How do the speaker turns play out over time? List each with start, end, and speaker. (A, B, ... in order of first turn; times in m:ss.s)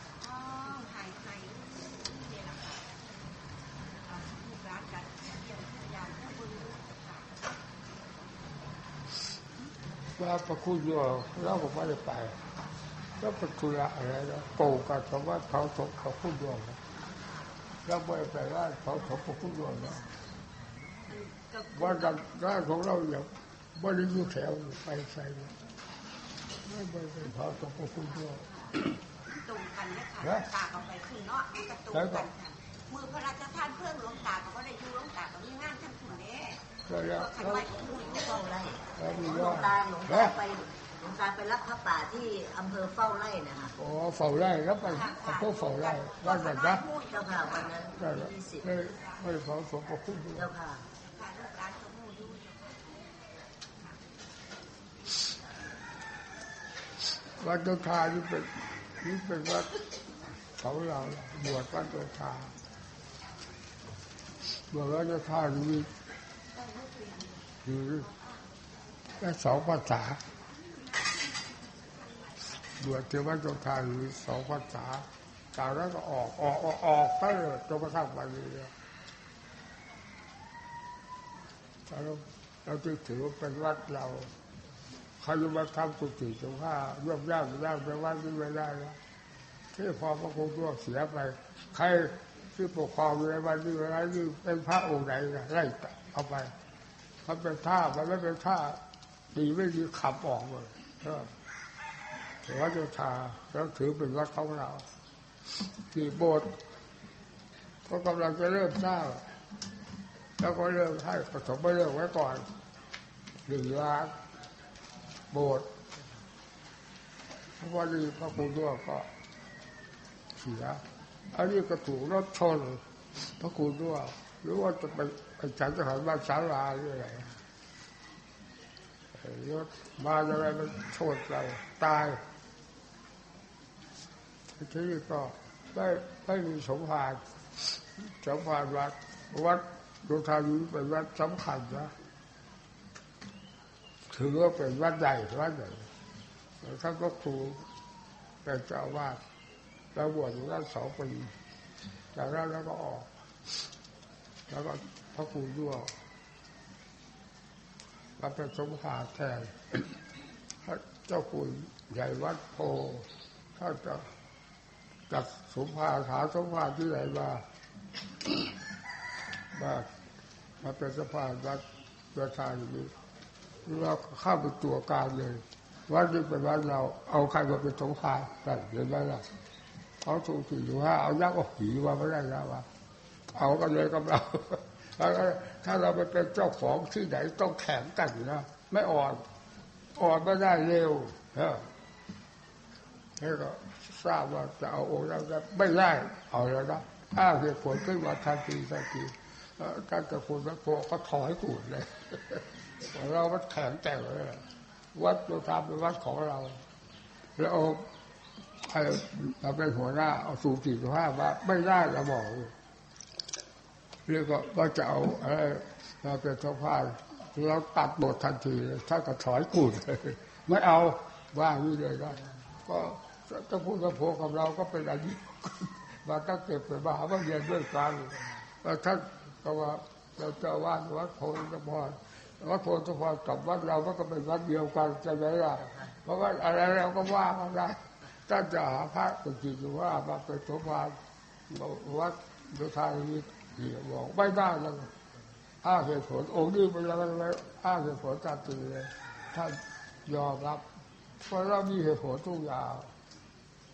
0:00.2-0:02.9 A
0:04.0-0:07.4 A
0:10.2-0:12.4 B
0:13.2-0:16.8 B
0:17.8-0:20.0 B
0:21.1-0:22.2 A
0:21.7-0:25.5 B
0:26.6-0:28.4 B
0:28.4-0:38.4 A
0:30.2-0:30.5 B
0:31.9-0:32.2 B
0:36.9-0:37.6 B
0:37.4-0:43.7 C
0:39.0-0:40.3 B
0:43.8-0:46.8 B
0:44.8-0:47.7 A
0:47.1-0:48.7 C
0:48.0-0:50.5 B
0:50.3-0:50.8 C
0:51.0-0:53.1 A
0:57.4-0:59.7 B
1:00.6-1:02.5 B
1:04.7-1:05.9 B
1:06.5-1:07.5 A
1:07.6-1:08.1 B
1:08.1-1:08.4 A
1:09.2-1:10.2 B
1:12.8-1:18.7 B
1:21.9-1:24.3 B
1:25.2-1:29.0 B
1:29.7-1:36.5 B
1:37.2-1:38.8 B
1:39.3-1:41.3 B
1:42.4-1:44.8 B
1:45.9-1:46.6 B
1:47.8-1:49.3 B
1:50.4-1:52.5 B
1:53.5-1:54.1 B
1:55.3-1:55.7 B
1:57.6-1:59.1 B
2:00.4-2:02.8 B
2:03.4-2:07.3 B
2:09.1-2:12.2 B
2:14.6-2:17.2 B
2:18.0-2:21.9 B
2:24.1-2:25.9 B
2:26.6-2:27.6 B
2:28.4-2:29.2 B
2:29.9-2:31.3 B
2:32.1-2:33.1 B
2:34.5-2:35.9 B
2:38.2-2:39.9 B
2:40.6-2:44.1 B
2:45.1-2:47.4 B
2:49.5-2:49.9 B
2:50.6-2:51.6 B
2:52.1-2:52.9 B
2:53.6-2:59.2 B
3:00.0-3:02.7 B
3:03.3-3:09.2 B
3:09.9-3:11.7 B
3:13.2-3:26.6 B
3:27.4-3:27.9 B
3:28.6-3:32.5 B
3:34.1-4:01.0 B
4:01.5-4:04.9 B
4:05.6-4:10.6 B
4:11.2-4:12.9 B